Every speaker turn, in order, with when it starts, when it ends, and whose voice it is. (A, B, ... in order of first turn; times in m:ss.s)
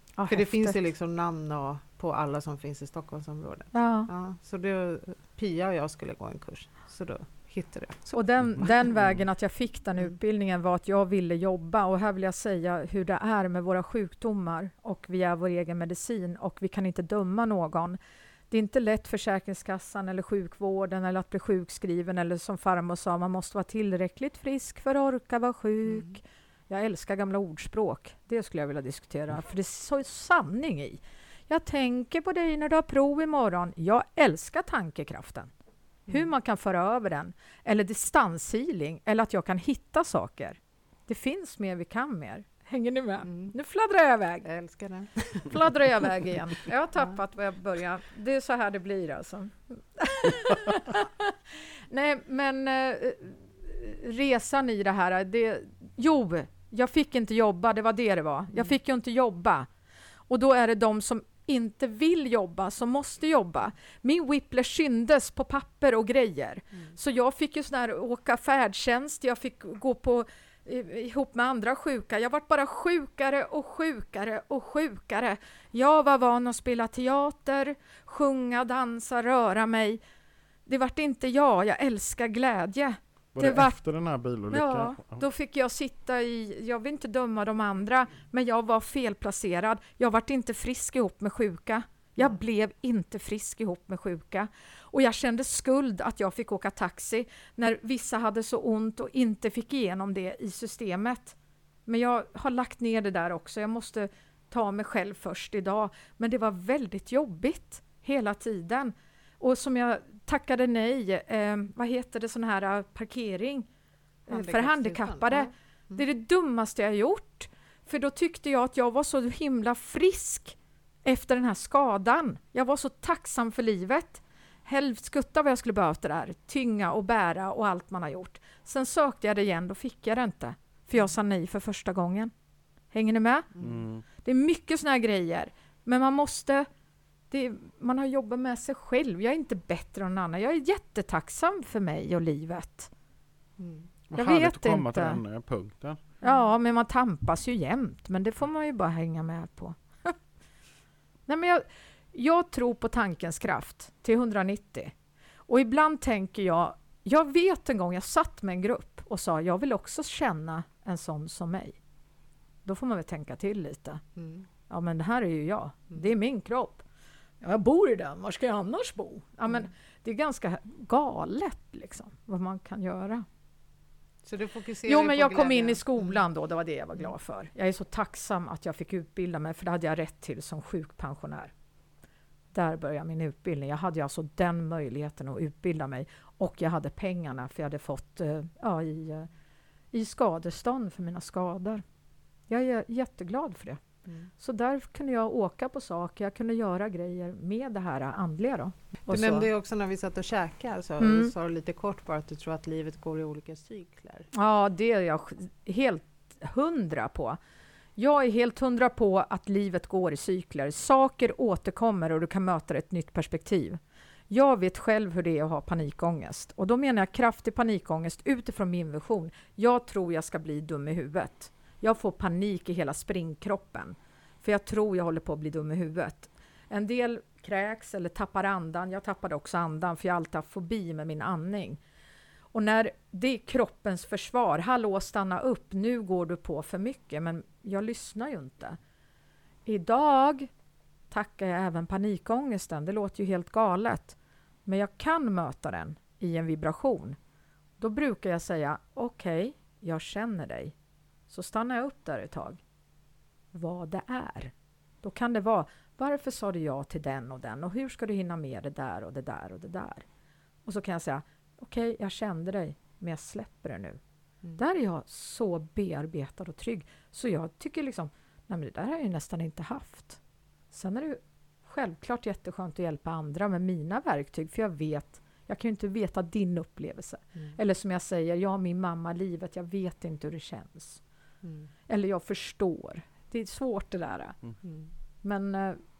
0:00.2-0:00.8 A
0:00.3-0:08.7 B
0:03.7-0:04.1 A
0:08.1-0:18.0 A
0:18.5-0:35.5 A
0:36.1-0:44.5 A
0:43.3-0:43.5 B
0:44.4-0:45.6 B
0:45.4-0:59.7 A
1:00.3-1:20.0 A
1:20.6-1:23.8 A
1:23.3-1:25.2 C
1:24.5-1:53.7 A
1:54.3-1:56.0 B
1:54.3-2:12.3 A
2:12.9-2:13.5 A
2:13.6-2:14.0 C
2:14.1-2:16.7 A
2:17.3-2:22.9 A
2:23.6-2:23.9 B
2:24.1-2:26.0 C
2:24.1-2:25.2 A
2:26.2-2:30.1 A
2:31.3-2:34.9 A
2:35.5-2:41.8 A
2:42.6-2:44.0 A
2:44.2-2:44.5 B
2:44.7-2:46.8 A
2:47.4-2:53.2 A
2:54.2-2:56.2 B
2:54.8-3:01.5 A
3:02.5-3:09.3 A
3:09.9-3:11.8 A
3:12.5-3:13.8 A
3:14.4-3:19.5 A
3:19.1-3:24.3 B
3:21.0-3:21.3 A
3:24.3-3:27.4 A
3:28.0-3:51.8 A
3:52.5-3:58.8 A
3:59.6-4:00.5 A
4:01.1-4:07.2 A
4:07.8-4:10.7 A
4:11.3-4:12.6 A
4:13.5-4:20.0 A
4:20.6-4:24.0 A
4:24.5-4:30.2 A
4:30.7-4:41.0 A
4:41.4-4:41.7 B
4:41.9-4:44.4 A
4:45.2-4:45.8 A